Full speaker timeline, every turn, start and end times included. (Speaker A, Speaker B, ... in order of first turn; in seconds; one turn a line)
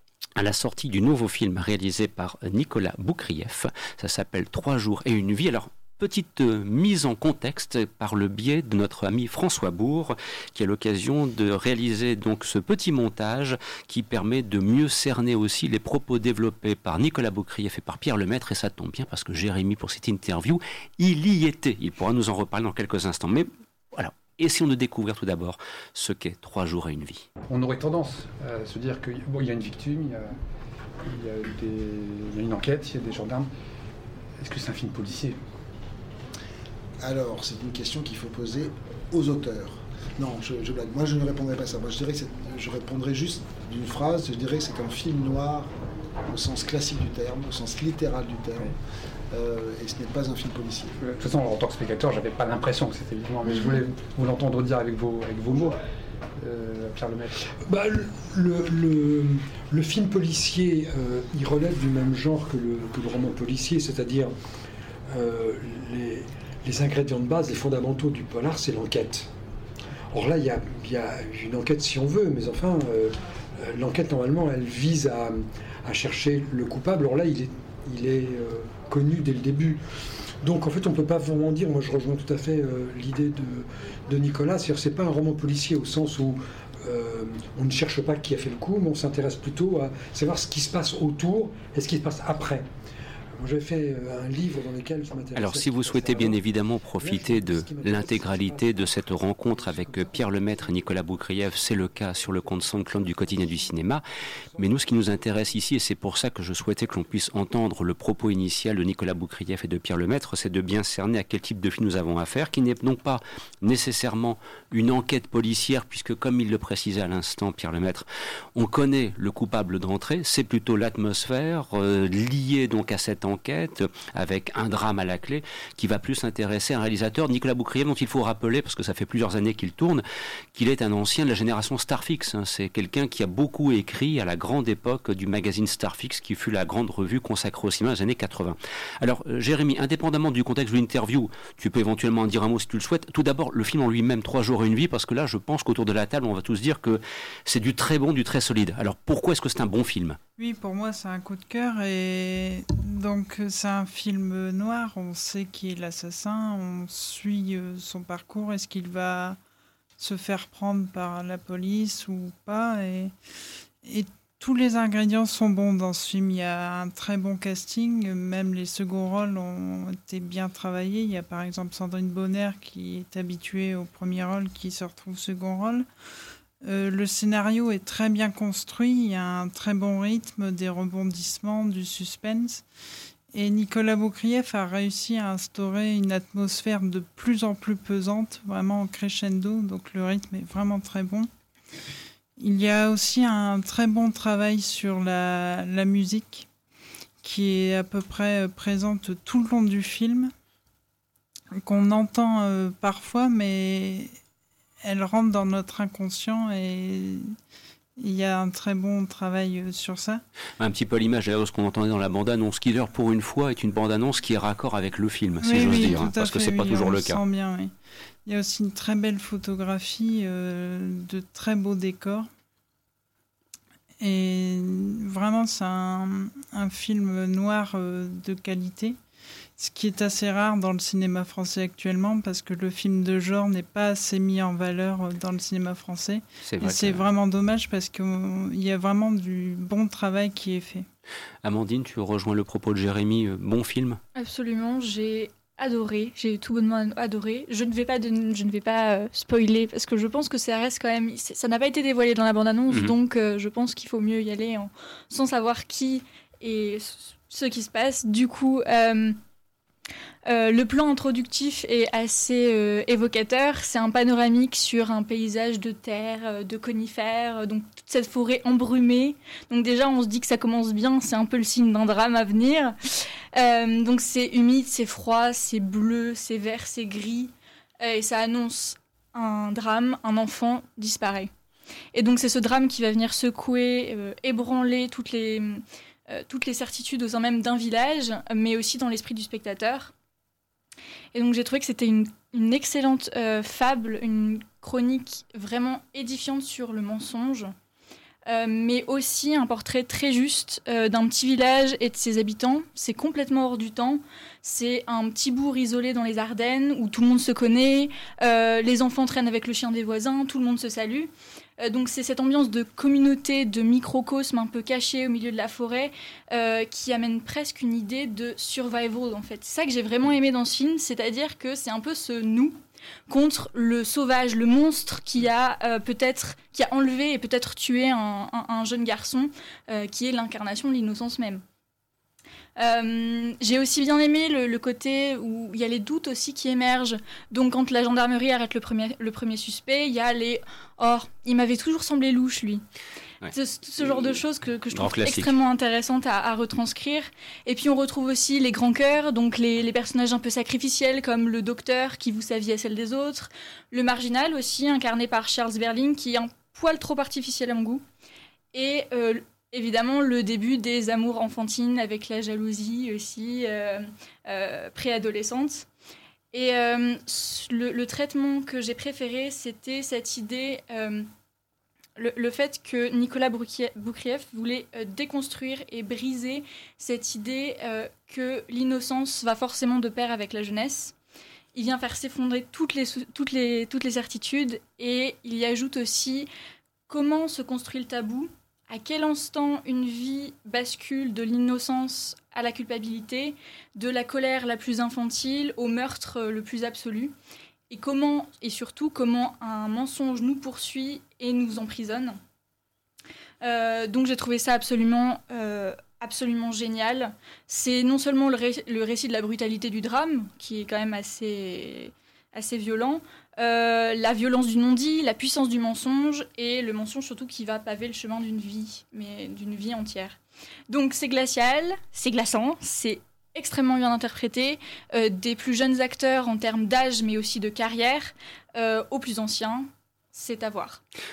Speaker A: 0.4-27.3
Speaker B: 27.5-30.3
Speaker B: 31.0-33.5
Speaker B: 34.4-35.4
Speaker C: 37.0-45.7
Speaker C: 46.3-48.7
Speaker C: 49.3-51.0
Speaker B: 51.0-55.8
Speaker B: 56.4-57.3
Speaker D: 57.6-64.3
Speaker D: 65.1-69.3
Speaker D: 70.1-79.8
Speaker D: 80.4-92.7
Speaker D: 93.4-96.4
Speaker A: 95.3-104.0
Speaker D: 97.0-104.0
Speaker D: 104.5-105.7
Speaker A: 104.6-130.0
Speaker D: 106.8-107.3
Speaker A: 130.5-150.2
Speaker E: 150.4-159.4
Speaker E: 160.0-163.1
Speaker E: 163.8-175.9
Speaker E: 176.6-182.7
Speaker E: 183.3-191.3
Speaker E: 192.4-196.5
Speaker E: 197.2-200.3
Speaker E: 201.5-204.1
Speaker E: 204.8-207.3
Speaker E: 208.0-210.2
Speaker A: 210.6-217.2
Speaker E: 215.4-217.7
Speaker E: 218.2-222.3
Speaker E: 224.0-229.0
Speaker E: 229.6-240.9
Speaker A: 236.4-237.1
Speaker A: 241.4-244.0
Speaker F: 244.2-259.2
Speaker F: 260.3-281.3
Speaker F: 281.9-289.9
Speaker F: 291.1-297.5
Speaker F: 298.3-311.1
Speaker F: 311.6-322.6
Speaker F: 323.1-331.4
Speaker F: 332.6-342.6
Speaker F: 343.3-357.8
Speaker A: 344.7-345.4
Speaker F: 358.5-365.7
Speaker F: 366.3-371.1
Speaker F: 372.0-380.9
Speaker F: 381.6-386.3
Speaker F: 386.9-397.1
Speaker F: 397.7-402.1
Speaker F: 403.4-420.2
Speaker F: 420.7-430.8